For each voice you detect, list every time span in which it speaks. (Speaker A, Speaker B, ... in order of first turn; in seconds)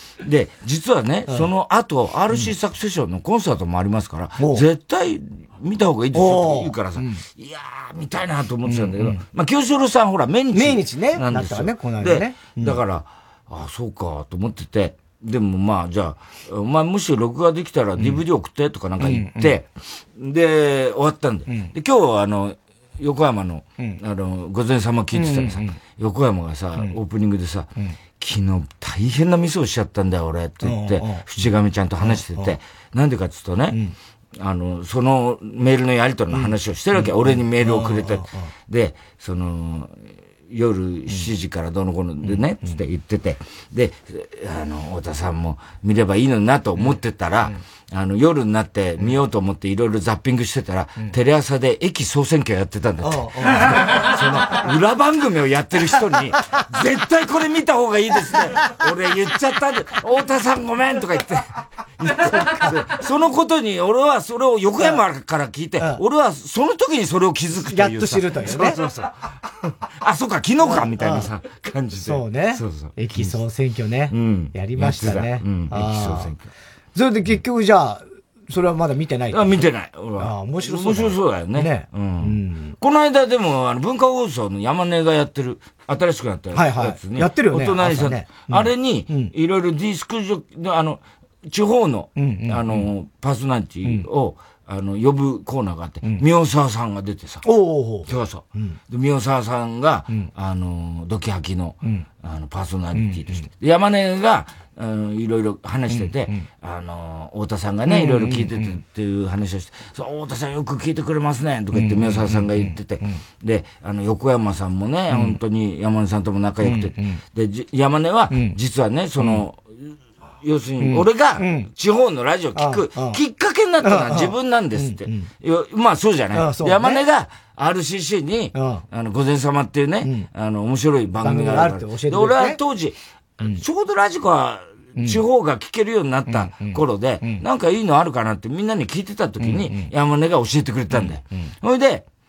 Speaker A: 0.2-33.8, 34.4-69.3, 69.9-73.4, 74.1-76.5, 79.3-97.4, 98.0-142.0
Speaker B: 4.4-4.6, 6.1-7.2, 8.7-9.2, 10.5-12.8, 18.0-18.2, 19.0-19.6, 25.1-25.7, 30.6-32.5, 36.3-38.5, 42.2-42.8, 53.0-54.0, 67.5-68.8, 70.6-71.3, 72.0-76.3, 76.9-79.6, 80.2-82.8, 86.5-89.3, 92.2-92.9, 97.4-98.8, 102.9-103.5, 105.9-106.5, 107.9-108.8, 111.7-113.2, 115.1-115.4, 116.6-117.2, 119.2-119.4, 120.8-121.7, 122.5-123.2, 123.8-125.3, 126.3-127.0, 128.5-128.8, 131.2-132.6, 136.3-137.4, 139.4-139.9, 140.9-141.2